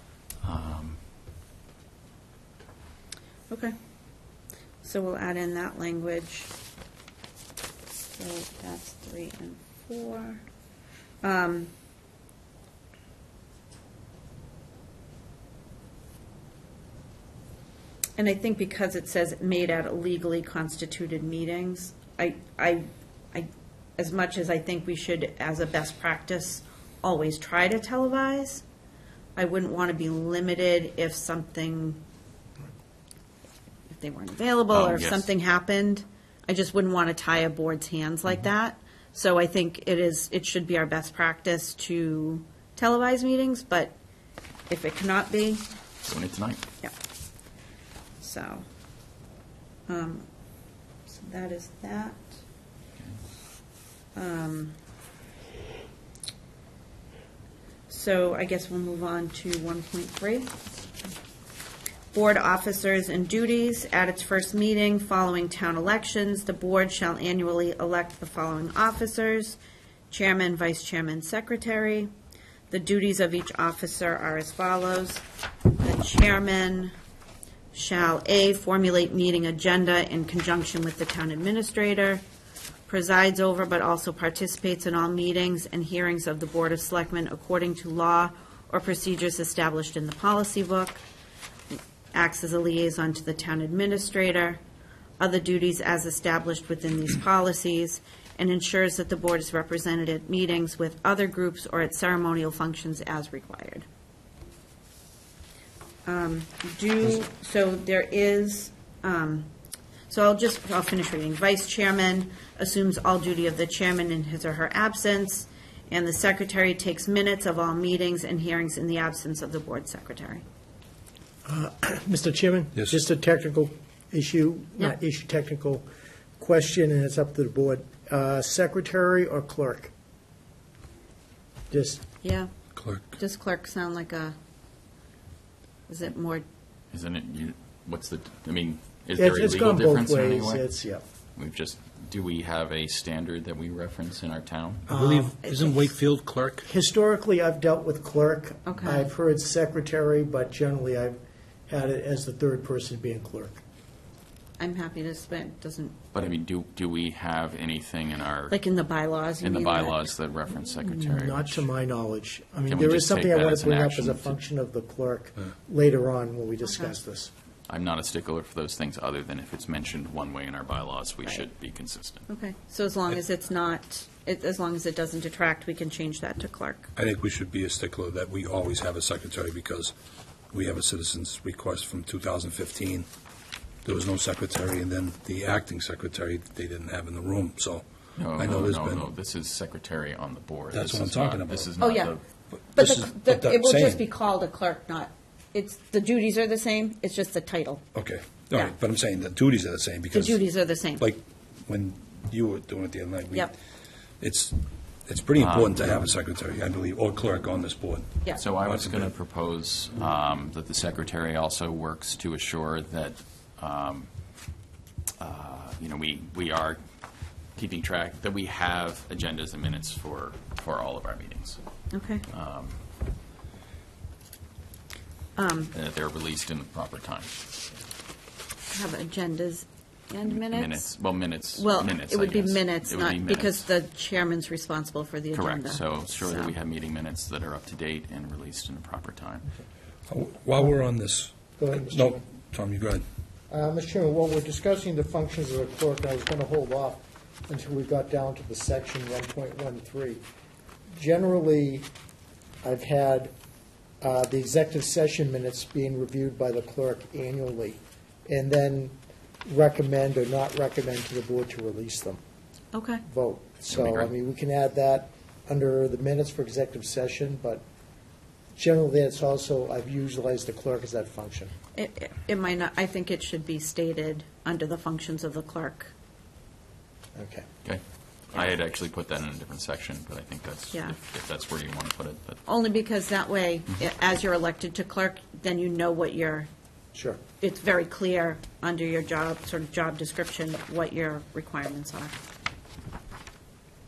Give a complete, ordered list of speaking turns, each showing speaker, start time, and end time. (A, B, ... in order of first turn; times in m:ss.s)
0:00.4-0:01.0 A
0:04.8-0:06.5 B
0:08.0-0:10.4 B
0:11.2-0:11.7 B
0:18.2-0:28.6 B
0:29.4-0:32.0 B
0:33.9-0:44.0 B
0:34.7-0:35.3 A
0:44.7-0:45.7 B
0:46.0-0:46.6 A
0:48.2-0:48.6 B
0:49.9-0:50.2 B
0:51.1-0:52.2 B
0:54.1-0:54.8 B
0:57.9-1:00.5 B
1:02.1-1:09.6 B
1:10.1-1:12.1 B
1:12.7-1:16.9 B
1:17.7-1:22.2 B
1:22.9-1:31.0 B
1:32.1-1:34.6 B
1:35.2-1:43.8 B
1:46.0-1:49.5 B
1:50.1-2:00.4 B
2:01.4-2:05.8 C
2:06.4-2:09.9 C
2:11.7-2:12.0 C
2:12.2-2:12.5 B
2:12.8-2:13.0 D
2:13.2-2:14.4 B
2:15.9-2:16.4 B
2:16.9-2:20.7 A
2:19.2-2:21.0 C
2:21.4-2:24.8 A
2:24.9-2:26.7 D
2:24.9-2:25.3 C
2:26.7-2:31.2 C
2:28.6-2:29.1 B
2:31.7-2:33.6 C
2:34.6-2:36.0 B
2:36.1-2:38.6 A
2:38.5-2:40.0 B
2:39.4-2:41.7 A
2:40.6-2:47.3 C
2:42.7-2:44.4 A
2:46.7-2:46.9 B
2:47.7-2:52.2 A
2:52.3-2:56.9 B
2:57.0-2:59.9 D
3:00.5-3:03.1 D
3:03.8-3:07.8 D
3:08.2-3:12.2 A
3:08.4-3:09.1 D
3:10.7-3:11.7 D
3:11.8-3:12.1 B
3:12.7-3:14.0 D
3:12.7-3:17.8 B
3:17.9-3:20.4 D
3:20.1-3:21.1 B
3:21.0-3:23.5 D
3:24.2-3:29.1 D
3:25.4-3:25.7 A
3:28.3-3:34.3 A
3:35.2-3:36.8 A
3:37.5-3:41.6 A
3:41.9-3:42.2 B
3:42.3-3:42.8 A
3:45.4-3:45.7 B
3:45.7-3:47.3 A
3:48.7-3:51.0 B
3:50.3-3:53.7 A
3:51.6-3:56.5 B
3:55.3-3:59.5 A
4:00.1-4:03.0 D
4:01.6-4:02.2 C
4:03.5-4:10.2 C
4:11.0-4:11.9 C
4:12.6-4:13.3 C
4:14.0-4:18.9 C
4:19.4-4:22.2 C
4:22.7-4:23.0 B
4:23.1-4:27.6 C
4:23.7-4:24.1 A
4:28.6-4:31.5 C
4:31.7-4:35.9 B
4:37.1-4:37.4 C
4:37.6-4:42.4 A
4:42.5-4:46.5 B
4:46.9-4:47.2 C
4:47.4-4:52.2 B